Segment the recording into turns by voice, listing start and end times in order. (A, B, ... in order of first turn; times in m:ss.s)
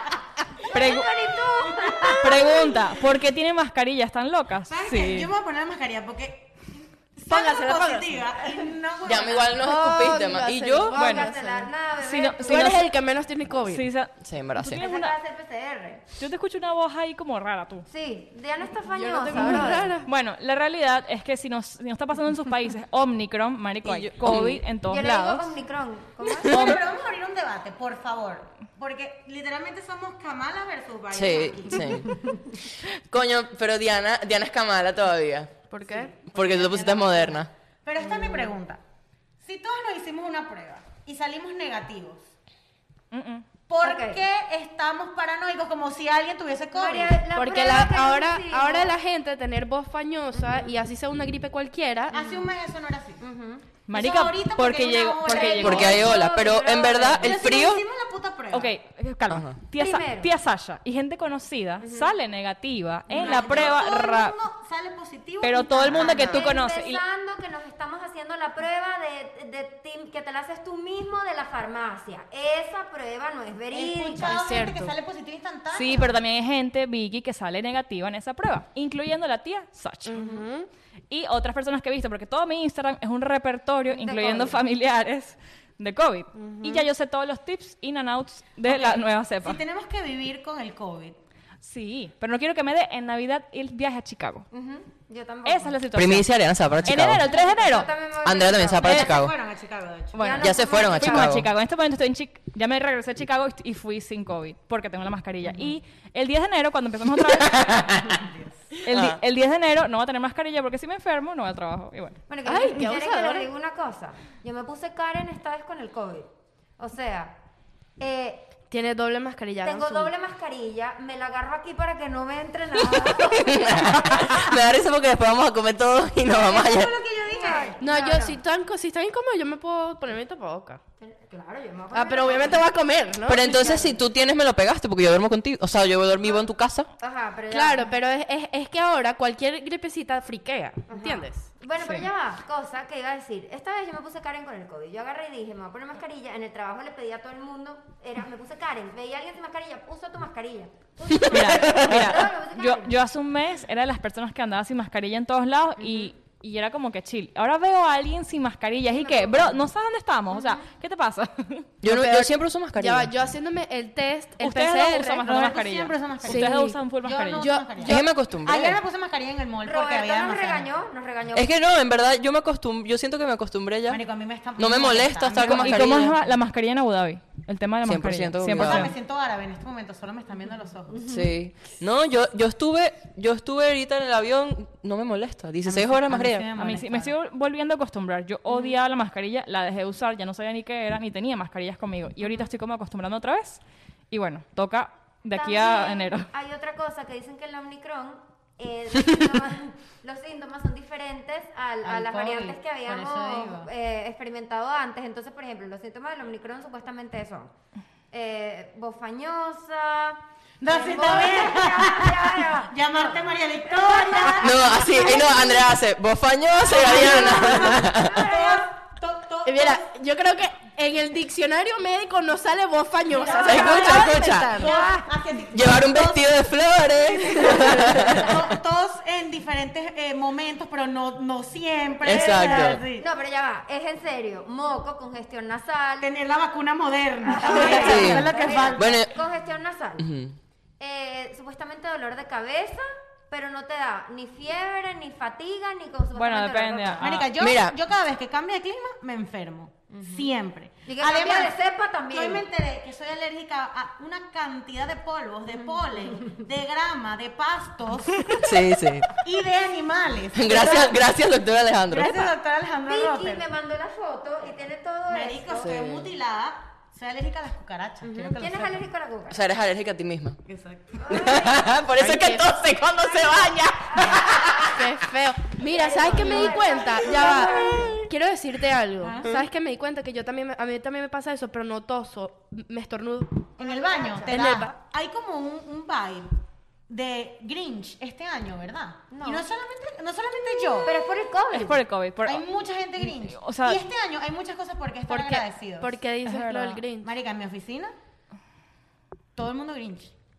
0:00.7-0:02.8 A
0:00.7-0:01.1 B
0:01.7-0:02.4 C
0:02.2-0:05.3 B
0:04.7-0:09.6 C
0:07.3-0:08.5 D
0:09.0-0:11.0 E
0:09.5-0:11.7 D
0:10.9-0:11.3 B
0:11.0-0:12.8 A
0:12.0-0:12.9 B
0:12.4-0:13.9 D
0:13.7-0:15.2 B
0:14.2-0:14.8 E
0:14.6-0:16.1 A
0:16.2-0:17.9 B
0:17.9-0:20.0 A
0:18.8-0:20.1 D
0:19.4-0:25.6 B
0:23.8-0:24.6 E
0:24.9-0:26.8 A
0:26.4-0:26.7 E
0:26.4-0:32.2 C
0:26.5-0:26.8 B
0:31.1-0:32.1 E
0:33.1-0:35.7 E
0:35.7-0:36.1 D
0:35.9-0:38.8 C
0:36.3-0:37.5 E
0:38.0-0:38.5 A
0:39.4-0:42.3 C
0:43.1-0:43.5 B
0:43.7-0:47.2 C
0:43.8-0:44.2 A
0:46.7-0:48.9 A
0:47.3-0:52.1 D
0:52.1-0:53.2 C
0:52.1-0:52.5 A
0:53.2-0:53.7 A
0:53.9-0:56.0 B
0:53.9-0:56.0 C
0:55.2-0:57.5 A
0:55.6-0:57.8 E
0:57.2-0:58.7 C
0:58.5-1:04.4 B
0:59.3-0:59.6 E
0:59.7-1:00.3 A
1:01.8-1:02.1 A
1:03.1-1:06.5 C
1:03.2-1:03.7 A
1:05.4-1:07.0 B
1:05.7-1:14.3 A
1:13.7-1:16.2 C
1:14.2-1:14.9 D
1:15.7-1:20.2 B
1:20.1-1:20.7 D
1:20.2-1:20.4 C
1:21.1-1:29.6 B
1:23.9-1:24.6 A
1:26.4-1:26.9 D
1:28.7-1:31.2 C
1:31.6-1:34.5 B
1:34.5-1:35.8 A
1:35.4-1:37.9 B
1:35.9-1:37.2 E
1:37.2-1:39.1 A
1:38.2-1:39.4 E
1:38.8-1:40.4 C
1:40.2-1:41.4 A
1:40.2-1:48.1 B
1:40.4-1:41.5 E
1:47.3-1:48.2 E
1:48.0-1:48.7 C
1:48.8-1:52.2 B
1:48.9-1:49.2 E
1:52.3-1:57.4 A
1:52.4-1:53.5 D
1:58.0-1:58.5 A
1:58.7-2:00.1 D
1:59.6-2:04.2 A
2:02.9-2:07.0 E
2:06.3-2:07.8 C
2:06.8-2:08.4 A
2:07.8-2:10.8 D
2:11.0-2:12.6 A
2:11.9-2:13.7 D
2:13.3-2:16.9 E
2:13.4-2:14.0 A
2:17.0-2:18.0 A
2:17.5-2:21.5 D
2:20.9-2:32.9 A
2:21.8-2:22.1 B
2:31.1-2:32.3 E
2:31.3-2:41.7 B
2:35.8-2:36.1 A
2:39.0-2:39.6 A
2:40.3-2:40.6 A
2:41.8-2:43.1 E
2:41.9-2:45.2 D
2:44.4-2:47.6 B
2:45.0-2:50.7 C
2:46.2-2:46.8 D
2:47.4-2:48.0 D
2:47.8-2:48.8 E
2:49.6-2:51.5 A
2:51.3-2:54.0 E
2:53.9-2:56.2 C
2:54.6-2:56.2 E
2:55.4-2:59.0 B
2:57.8-2:58.9 E
2:58.6-3:01.1 C
3:00.9-3:01.3 A
3:01.1-3:06.5 E
3:05.6-3:07.2 C
3:06.6-3:16.3 B
3:08.5-3:08.8 A
3:15.4-3:27.5 A
3:21.8-3:23.7 C
3:28.1-3:35.8 A
3:30.6-3:35.2 C
3:34.4-3:38.2 E
3:36.7-3:38.7 A
3:36.7-3:39.9 C
3:39.4-3:44.8 D
3:43.1-3:46.3 C
3:43.4-3:44.6 E
3:44.6-3:45.1 A
3:45.5-3:48.5 E
3:47.1-3:53.1 C
3:52.0-3:52.8 E
3:52.0-3:56.1 A
3:56.0-3:59.0 C
3:57.2-4:00.1 A
3:57.7-3:59.1 E
4:00.0-4:00.4 E
4:00.8-4:07.1 A
4:06.2-4:07.3 B
4:07.0-4:11.6 C
4:07.4-4:07.8 E
4:09.9-4:10.3 A
4:10.9-4:12.5 A
4:12.1-4:18.6 C
4:18.4-4:19.1 E
4:19.2-4:21.0 C
4:20.4-4:22.3 E
4:21.9-4:23.4 C
4:22.9-4:25.7 A
4:25.1-4:28.8 C
4:25.6-4:26.1 E
4:28.0-4:29.4 A
4:29.3-4:30.4 E
4:30.5-4:31.2 C
4:31.0-4:31.7 A
4:31.1-4:34.8 E
4:32.0-4:32.5 D
4:33.0-4:34.7 A
4:34.6-4:43.6 D
4:35.6-4:38.1 A
4:37.2-4:37.9 E
4:39.0-4:39.3 C
4:43.6-4:46.4 C
4:43.7-4:44.3 A
4:44.2-4:44.7 D
4:46.9-4:51.1 C
4:49.1-4:49.5 A
4:50.8-4:51.8 A
4:51.5-4:52.5 B
4:52.2-4:56.0 C
4:53.0-4:53.8 B
4:55.1-4:57.1 D
4:56.2-4:56.8 B
4:57.0-4:57.9 C
4:59.4-5:00.1 C